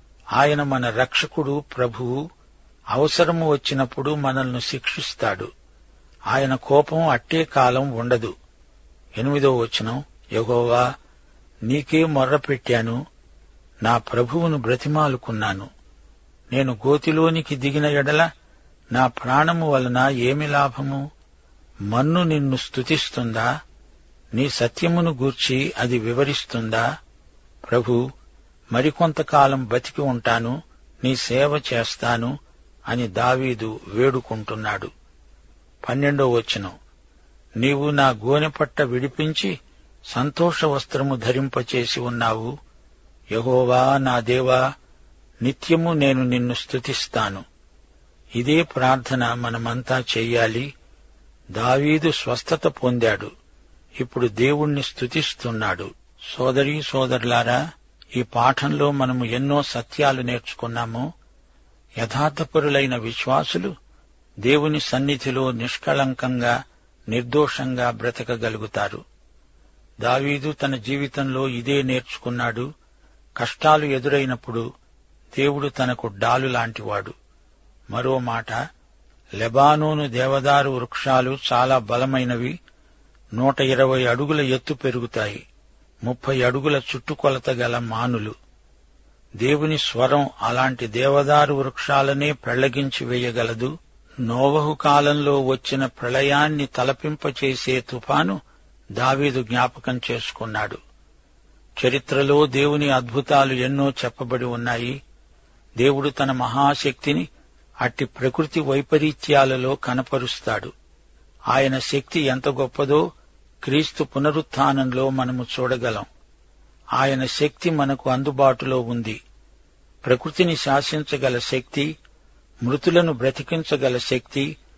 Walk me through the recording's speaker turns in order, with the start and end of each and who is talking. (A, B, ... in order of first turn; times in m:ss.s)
0:00.4-0:02.2 A
0:02.9-0:05.5 A
0:06.3-0:08.3 A
0:09.2-0:10.9 A
0:11.7-0:13.0 A
0:13.8-0:15.7 A
0:16.5-0:18.2 A
0:18.9-0:21.0 A
0:21.9-0:23.5 A
0:24.4-0:26.8 A
0:27.6-0:28.0 A
0:28.7-0:32.3 A
0:32.9-0:34.9 A
0:35.8-0:36.7 A
0:37.6-0:39.5 A
0:40.1-0:42.5 A
0:43.3-0:44.6 A
0:45.4-0:47.4 A
0:48.4-0:50.7 A
0:51.6-0:53.3 A
0:54.0-0:57.6 A
0:58.2-1:01.1 A
1:02.0-1:03.7 A
1:04.4-1:06.5 A
1:07.1-1:09.0 A
1:10.0-1:12.7 A
1:13.4-1:14.6 A
1:15.3-1:17.1 A
1:17.9-1:18.6 A
1:19.4-1:22.5 A
1:23.4-1:25.4 A
1:26.0-1:28.3 A
1:29.4-1:33.7 A
1:34.2-1:38.4 A
1:39.0-1:40.8 A
1:41.8-1:45.0 A
1:45.8-1:47.2 A
1:47.8-1:50.7 A
1:51.5-1:53.0 A
1:53.6-1:56.1 A
1:57.0-1:59.2 A
2:00.0-2:01.9 A
2:02.6-2:04.5 A